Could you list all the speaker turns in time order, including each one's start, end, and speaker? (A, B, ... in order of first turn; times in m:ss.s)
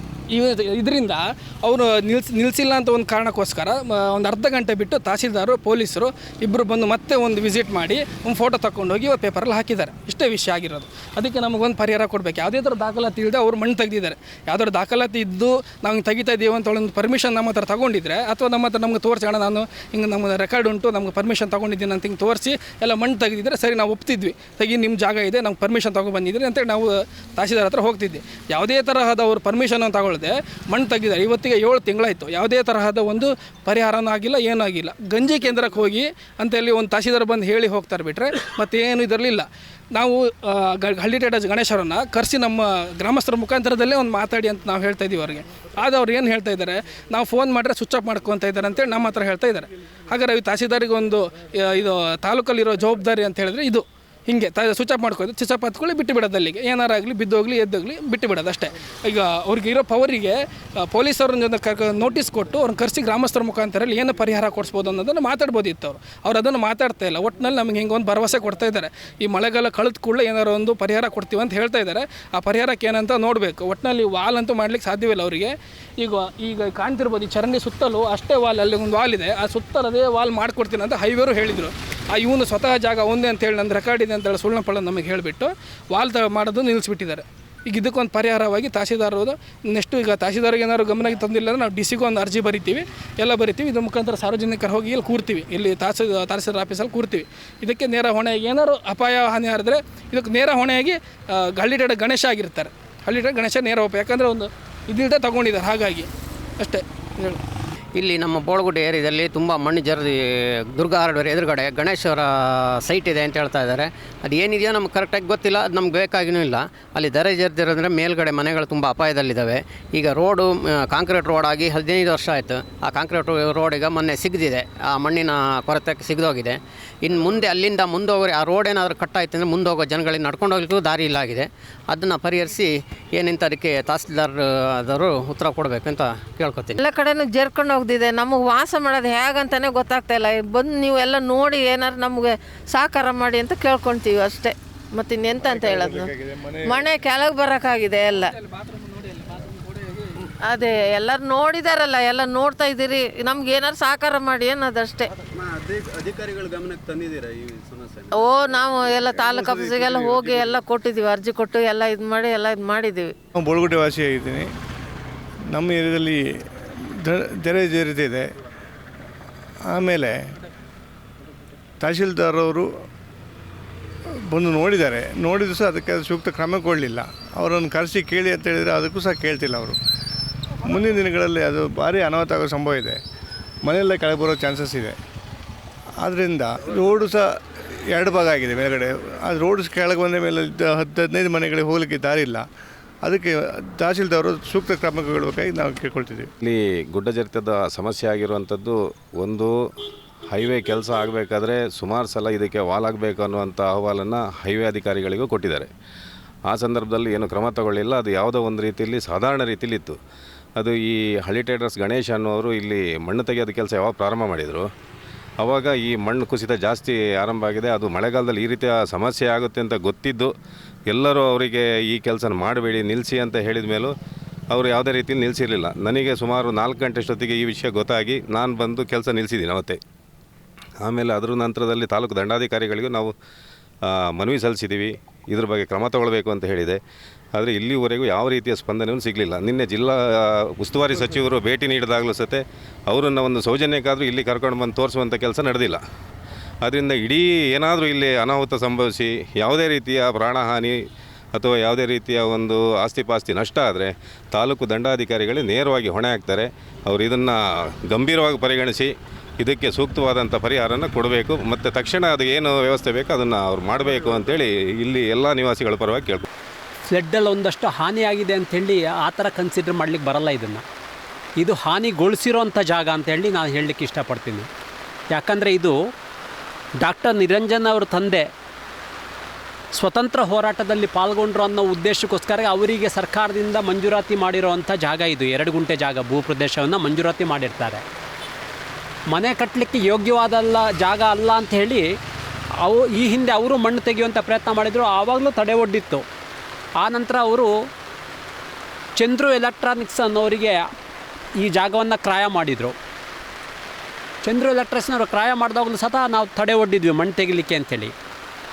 0:00.3-1:46.1 A
1:46.6-1:47.4 A
1:47.9-2:16.8 B
2:16.8-2:26.1 C
2:25.5-2:26.8 D
2:26.6-2:28.3 C
2:28.4-2:30.3 A
2:30.4-2:35.1 C
2:35.4-2:38.1 E
2:38.1-2:43.1 C
2:39.6-2:40.3 E
2:43.3-2:44.4 D
2:45.5-2:46.2 D
2:47.0-2:48.3 D
2:49.7-2:50.2 D
2:51.8-2:52.7 D
2:54.3-2:59.8 D
3:00.7-3:03.0 D
3:03.6-3:05.0 D
3:06.0-3:07.2 D
3:07.9-3:12.4 D
3:13.0-3:16.3 D
3:16.4-3:19.5 F
3:20.3-3:25.7 F
3:26.5-3:30.0 F
3:30.6-3:34.7 F
3:35.4-3:40.3 F
3:40.9-3:43.9 F
3:44.5-3:49.8 F
3:50.8-3:53.1 F
3:53.8-3:56.8 F
3:57.3-4:05.8 F
4:06.6-4:10.8 F
4:11.3-4:17.4 F
4:17.9-4:26.3 F
4:26.9-4:30.6 G
4:31.4-4:34.5 G
4:35.1-4:35.8 G
4:36.8-4:38.2 G
4:39.7-4:47.8 G
4:49.1-4:51.8 G
4:52.6-4:56.0 G
4:56.8-4:57.5 G
4:59.0-5:00.6 G
5:01.4-5:02.7 G
5:04.2-5:07.9 G